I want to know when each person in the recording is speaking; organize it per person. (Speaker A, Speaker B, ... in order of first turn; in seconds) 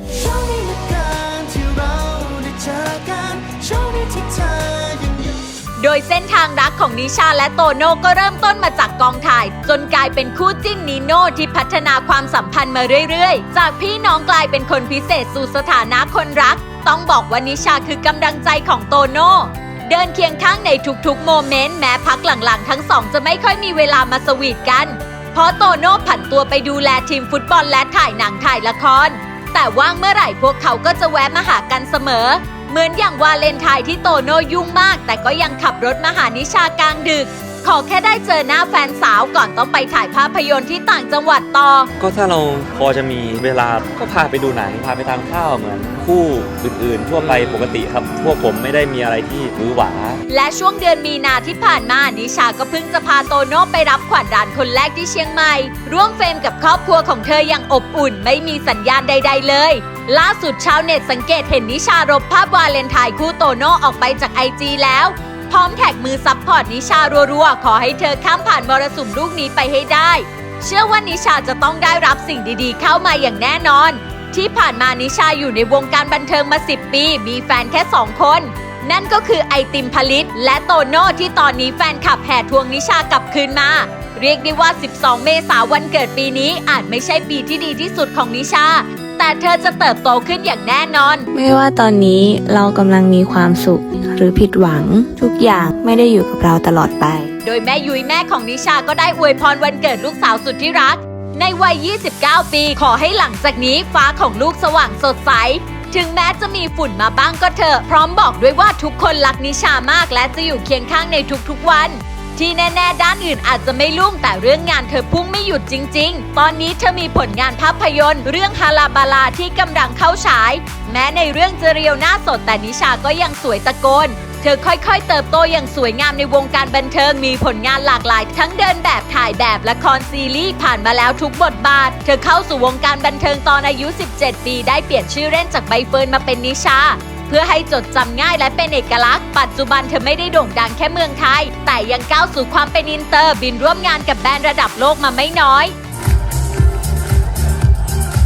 Speaker A: 0.2-5.3
Speaker B: 5.8-41.9, 50.3-91.3, 97.4-145.7
Speaker C: 42.0-50.2
Speaker D: 91.3-97.3